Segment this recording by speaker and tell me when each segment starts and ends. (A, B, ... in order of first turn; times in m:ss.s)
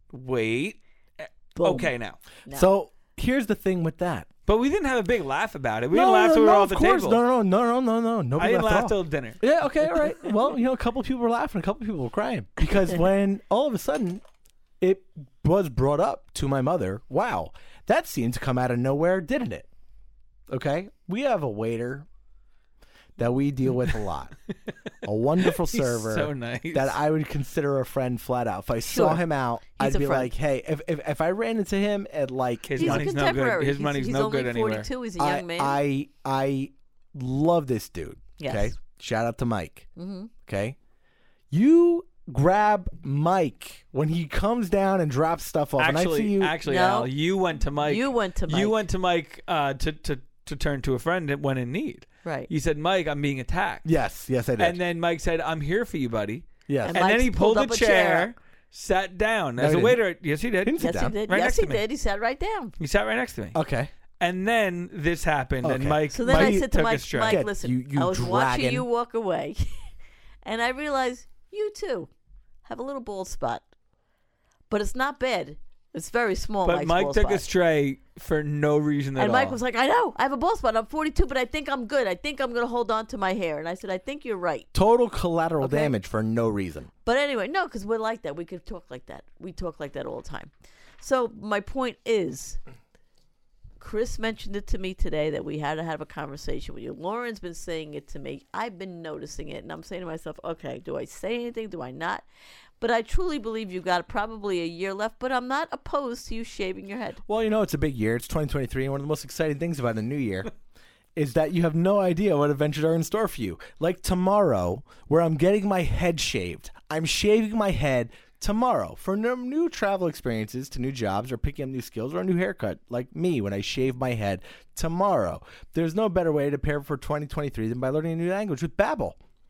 0:00.1-0:02.2 A
0:01.6-0:01.9 B
0:02.5-0:04.3 C
0:04.5-0:07.2 A
0:05.9-0:14.2 C
0:08.4-0:09.5 A
0:14.8-0:19.7 C
0:20.5-0:22.1 C
0:23.2-0:24.3 C
0:25.0-0:33.1 C
0:25.4-0:27.0 A
0:28.8-0:30.3 B
0:32.7-0:34.9 A
0:32.8-0:35.8 B
0:35.2-0:39.9 C
0:38.4-0:38.7 B
0:40.0-0:40.3 B
0:40.4-0:40.8 C
0:41.5-0:46.6 C
0:45.8-0:53.9 A
0:46.6-0:47.1 B
0:47.8-0:48.8 B
0:52.2-0:52.5 B
0:53.8-0:54.8 C
0:54.6-1:01.8 A
0:56.7-0:57.0 C
0:56.8-0:58.3 B
0:59.6-1:00.0 C
1:00.6-1:01.1 C
1:00.8-1:02.7 B
1:02.8-1:03.6 A
1:03.5-1:03.9 C
1:04.2-1:07.4 A
1:05.6-1:08.8 C
1:06.1-1:09.9 B
1:10.4-1:12.1 B
1:12.6-1:13.6 B
1:14.7-1:17.4 B
1:16.6-1:19.6 A
1:19.2-1:24.7 B
1:24.7-1:26.9 C
1:25.6-1:25.9 B
1:27.0-1:32.6 B
1:33.8-1:42.2 B
1:42.8-1:47.2 B
1:47.2-1:50.5 C
1:51.2-2:09.2 C